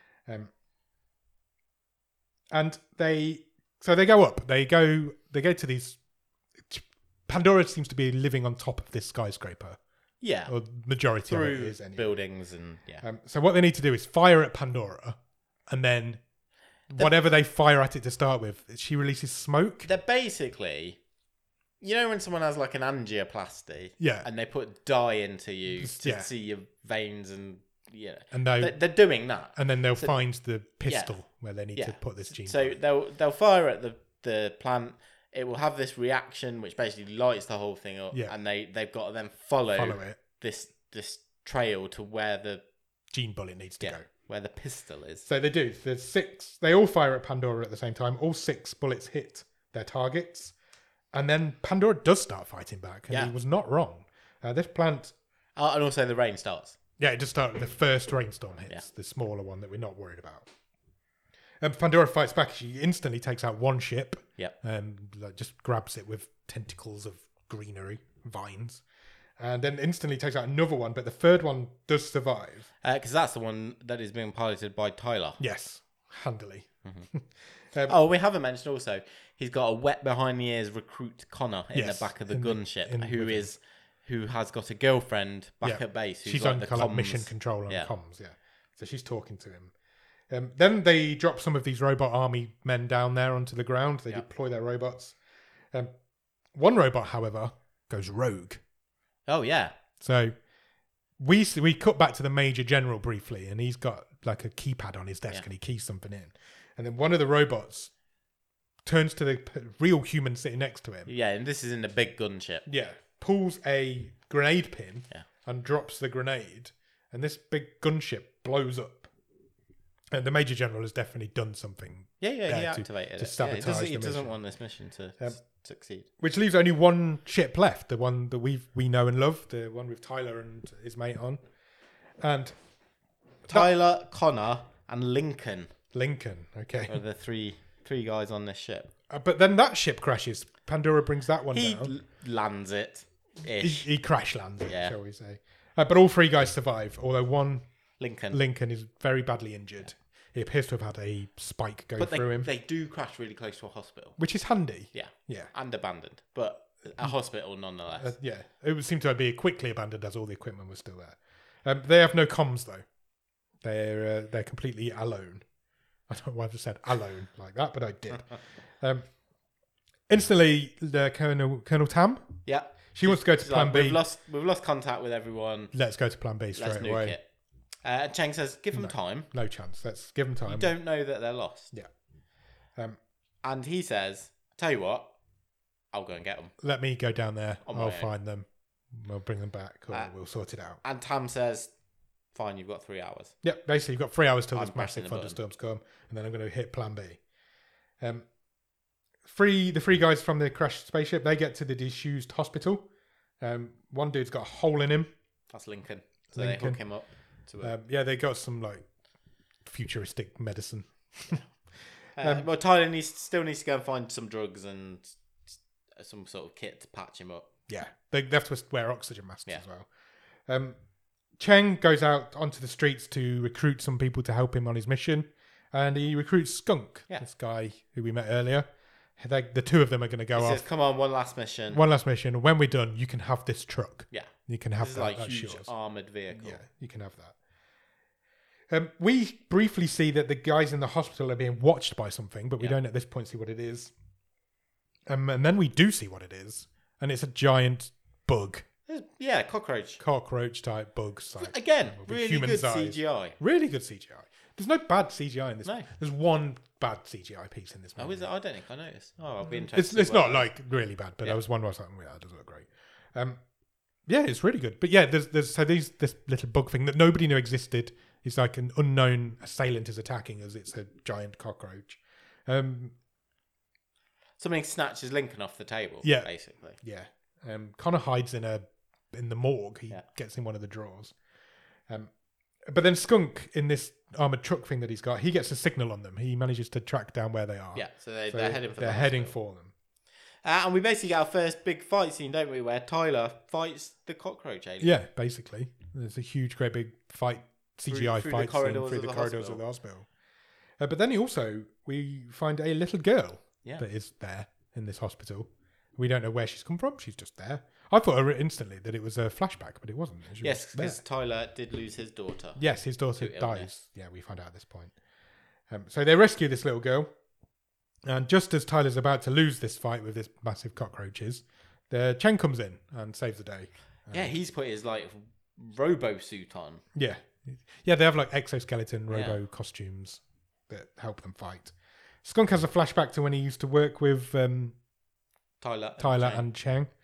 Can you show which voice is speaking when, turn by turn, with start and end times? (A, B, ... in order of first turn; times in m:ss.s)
0:02.5-0:06.0 A
0:06.7-0:09.8 A
0:10.2-0:10.5 B
0:10.5-0:12.1 A
0:11.3-0:13.0 B
0:13.0-0:15.2 A
0:15.7-0:16.2 A
0:16.9-0:19.9 A
0:19.8-0:21.0 B
0:21.8-0:30.2 B
0:24.0-0:24.3 A
0:25.8-0:26.3 A
0:28.3-0:28.8 A
0:29.6-0:32.8 A
0:30.9-0:31.1 B
0:31.8-0:42.6 B
0:39.7-0:40.2 A
0:43.1-0:44.0 A
0:43.8-0:45.2 B
0:45.2-0:50.5 A
0:51.1-0:55.1 A
0:55.6-0:56.8 B
0:57.0-1:00.5 A
1:01.6-1:08.8 A
1:09.4-1:12.7 A
1:12.8-1:15.4 B
1:15.4-1:17.9 A
1:17.9-1:27.9 B
1:21.7-1:23.5 A
1:25.6-1:29.7 A
1:30.3-1:35.2 A
1:36.5-1:38.6 A
1:39.3-1:39.7 B
1:40.0-1:40.3 A
1:41.2-1:47.9 A
1:48.8-1:51.1 A
1:51.1-1:52.6 B
1:52.7-1:59.1 A
2:00.1-2:04.4 A
2:02.2-2:06.0 B
2:06.2-2:11.4 A
2:12.2-2:12.5 A
2:13.5-2:15.7 B
2:15.9-2:17.0 A
2:16.9-2:18.9 B
2:19.1-2:21.9 A
2:21.5-2:23.9 B
2:23.6-2:27.6 A
2:24.6-2:24.9 B
2:28.0-2:28.4 B
2:28.3-2:32.5 A
2:32.0-2:34.2 B
2:34.2-2:35.5 A
2:34.9-2:38.1 B
2:38.0-2:42.8 A
2:43.6-2:45.4 A
2:46.1-2:49.0 A
2:50.1-2:52.4 A
2:52.4-2:55.7 B
2:52.9-2:54.0 A
2:55.7-2:57.2 A
2:56.6-2:57.2 B
2:57.8-2:59.3 B
2:58.7-3:00.7 A
3:00.4-3:01.7 B
3:03.4-3:05.1 B
3:05.9-3:06.5 B
3:06.6-3:10.8 A
3:07.6-3:08.1 B
3:10.8-3:11.7 B
3:12.3-3:13.3 B
3:13.4-3:17.2 A
3:14.5-3:15.4 B
3:18.0-3:18.2 A
3:19.2-3:22.8 A
3:23.4-3:25.1 A
3:25.5-3:27.7 B
3:26.3-3:26.8 A
3:27.6-3:28.8 A
3:29.6-3:31.4 A
3:32.2-3:35.2 B
3:32.2-3:32.4 A
3:36.0-3:37.5 B
3:37.7-3:39.9 A
3:40.5-3:40.8 A
3:41.4-3:48.7 A
3:49.2-3:50.6 A
3:50.3-3:51.8 B
3:51.7-3:55.7 A
3:54.1-3:56.6 B
3:56.3-3:57.4 A
3:58.7-4:03.9 A
4:05.1-4:08.7 A
4:08.9-4:10.0 B
4:10.0-4:18.3 A
4:11.4-4:13.4 B
4:18.0-4:20.5 B
4:19.7-4:23.4 A
4:24.1-4:32.9 A
4:34.4-4:36.8 B
4:36.0-4:36.3 A
4:36.8-4:41.1 A
4:42.7-4:49.7 A
4:47.7-4:49.3 B
4:50.4-4:54.9 B
4:54.8-5:00.1 A
4:57.9-4:59.6 B
5:00.8-5:11.0 A
5:10.4-5:12.6 B
5:12.6-5:14.9 A
5:13.2-5:13.7 B
5:15.7-5:17.1 A
5:18.0-5:24.3 A
5:24.1-5:26.8 B
5:26.9-5:34.8 A
5:29.1-5:29.4 B
5:35.6-5:36.4 B
5:36.0-5:36.9 A